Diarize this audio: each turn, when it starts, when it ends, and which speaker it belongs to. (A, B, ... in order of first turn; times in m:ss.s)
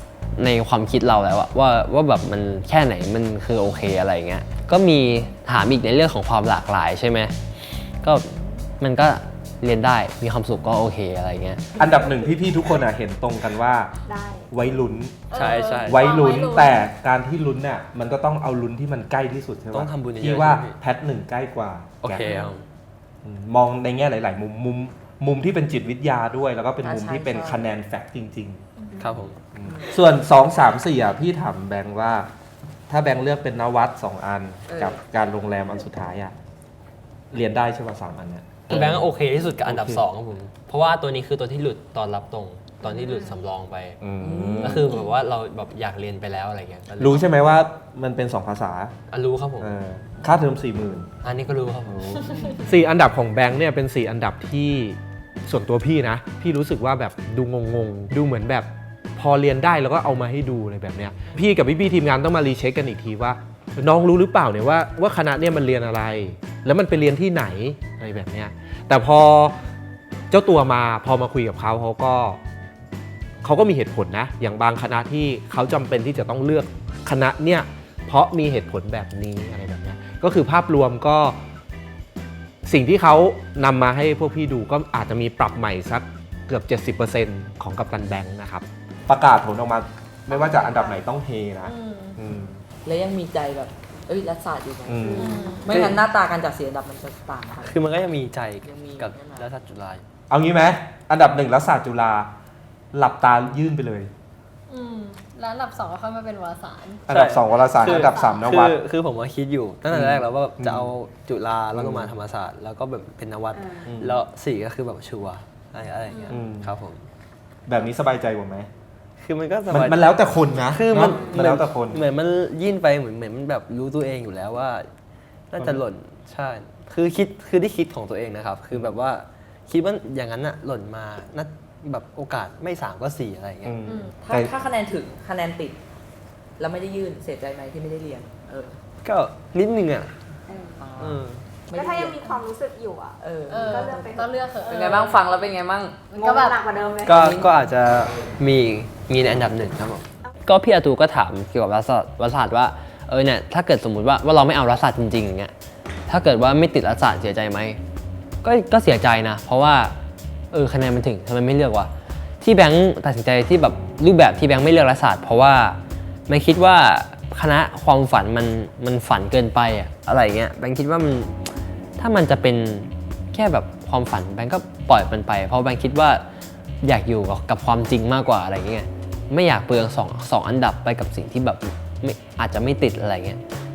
0:00.4-0:07.4 A
0:07.9-0:11.7 A
0:11.8-0:12.4 B
0:11.8-0:14.0 C
0:14.1-0:14.5 B
0:14.5-0:15.3 C
0:15.3-0:16.8 D
0:15.3-0:16.1 A
0:15.9-0:22.3 C
0:19.7-0:20.8 A
0:22.0-0:22.6 A
0:22.2-0:22.6 E
0:23.2-0:32.3 C
0:26.8-0:27.7 E
0:29.0-0:29.4 A
0:29.6-0:30.0 E
0:32.9-0:36.3 C
0:34.7-0:35.0 E
0:37.3-0:39.1 C
0:38.7-0:44.0 A
0:39.6-0:40.0 C
0:44.0-0:44.9 C
0:44.2-0:45.0 E
0:44.6-0:47.2 A
0:47.0-0:48.9 C
0:49.1-0:49.7 A
0:49.6-0:51.1 C
0:51.2-0:52.4 A
0:51.8-1:09.6 C
0:52.4-0:52.7 E
1:10.3-1:12.4 C
1:13.4-1:21.4 C
1:22.6-1:32.6 C
1:30.6-1:31.0 E
1:31.6-1:32.2 D
1:32.8-1:37.8 E
1:34.9-1:35.3 C
1:35.1-1:35.6 B
1:35.1-1:35.7 D
1:35.7-1:36.0 A
1:37.6-1:40.0 A
1:38.6-1:39.5 E
1:40.3-1:42.3 C
1:42.9-1:44.1 C
1:44.7-1:47.0 D
1:47.1-1:48.8 C
1:47.1-1:57.0 A
1:47.6-1:48.5 D
1:49.9-1:50.9 C
1:51.7-1:52.1 C
1:53.5-1:53.9 B
1:53.9-1:54.2 C
1:56.1-1:56.4 D
1:56.3-1:56.7 C
1:57.7-1:58.7 C
1:59.2-2:00.1 A
1:59.7-2:02.0 C
2:00.6-2:04.9 A
2:01.0-2:01.4 B
2:05.5-2:13.8 A
2:13.6-2:14.5 C
2:13.9-2:14.1 D
2:14.2-2:15.8 E
2:16.6-2:18.8 E
2:19.0-2:20.1 A
2:20.5-2:20.9 B
2:20.8-2:22.4 E
2:21.0-2:21.4 A
2:21.7-2:24.3 B
2:23.2-2:26.1 E
2:23.5-2:25.2 D
2:26.1-2:27.4 B
2:26.2-2:26.6 D
2:27.1-2:35.5 A
2:27.1-2:27.7 E
2:36.1-2:37.8 A
2:38.4-2:40.0 A
2:40.5-2:41.9 A
2:42.4-2:51.3 A
2:52.0-2:56.2 A
2:56.8-3:03.4 A